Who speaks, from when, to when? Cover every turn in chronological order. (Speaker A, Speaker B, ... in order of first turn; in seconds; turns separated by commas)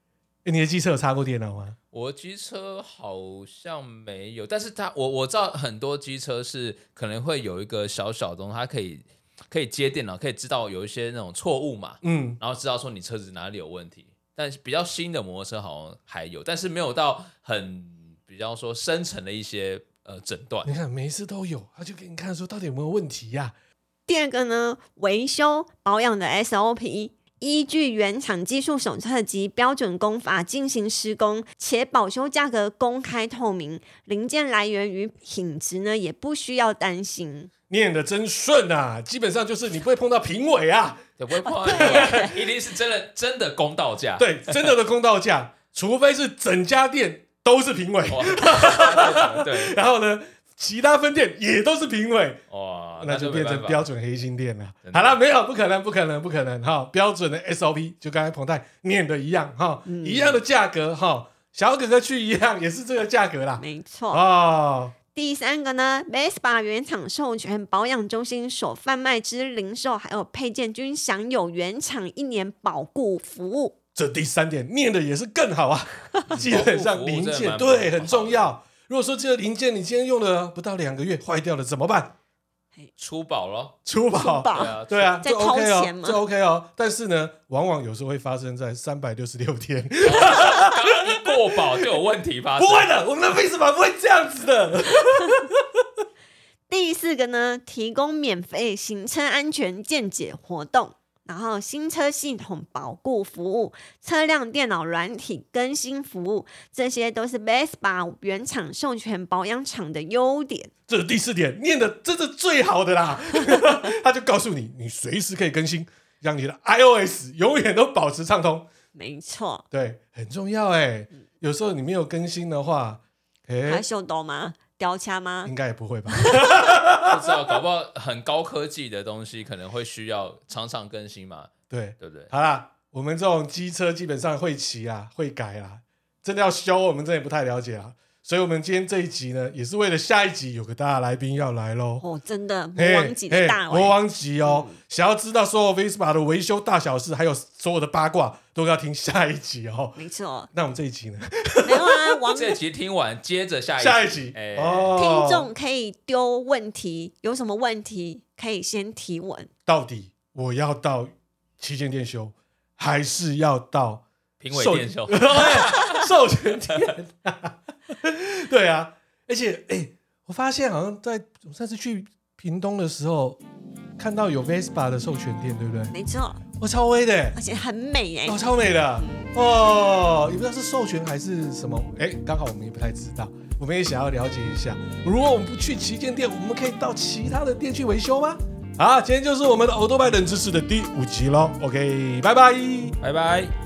Speaker A: 0.4-1.8, Speaker B: 1.9-20.7, Speaker A: 12.0-12.4, Speaker A: 20.6-23.5, Speaker C: 24.1-37.5, Speaker A: 37.7-41.0, Speaker B: 41.2-44.7, Speaker C: 41.6-42.3, Speaker A: 41.6-42.3, Speaker A: 44.2-52.4, Speaker B: 48.1-49.8, Speaker B: 52.5-53.9, Speaker A: 53.0-65.0, Speaker B: 54.8-55.2, Speaker C: 59.9-60.4, Speaker C: 63.6-64.2, Speaker C: 65.1-73.8, Speaker A: 73.9-82.1, Speaker B: 76.3-78.5, Speaker B: 83.0-83.8, Speaker A: 83.8-91.2, Speaker C: 84.1-86.2, Speaker B: 84.5-85.2, Speaker B: 90.0-92.9, Speaker A: 92.6-95.6, Speaker C: 96.7-110.7, Speaker A: 110.9-118.7, Speaker C: 113.5-113.8, Speaker C: 118.9-119.6, Speaker A: 119.7-123.8, Speaker C: 123.6-125.5, Speaker A: 125.4-127.2, Speaker B: 127.1-132.3, Speaker A: 131.7-142.0, Speaker C: 142.0-144.8, Speaker A: 142.7-150.0, Speaker C: 150.0-150.5, Speaker A: 150.5-152.3, Speaker C: 151.6-152.6, Speaker B: 152.3-154.9, Speaker A: 153.8-155.5, Speaker C: 155.0-159.5, Speaker A: 159.7-173.4, Speaker B: 164.4-166.0, Speaker A: 174.0-175.9, Speaker C: 175.9-176.4, Speaker A: 176.6-177.4, Speaker C: 177.3-179.3, Speaker A: 178.2-193.0, Speaker B: 193.0-193.5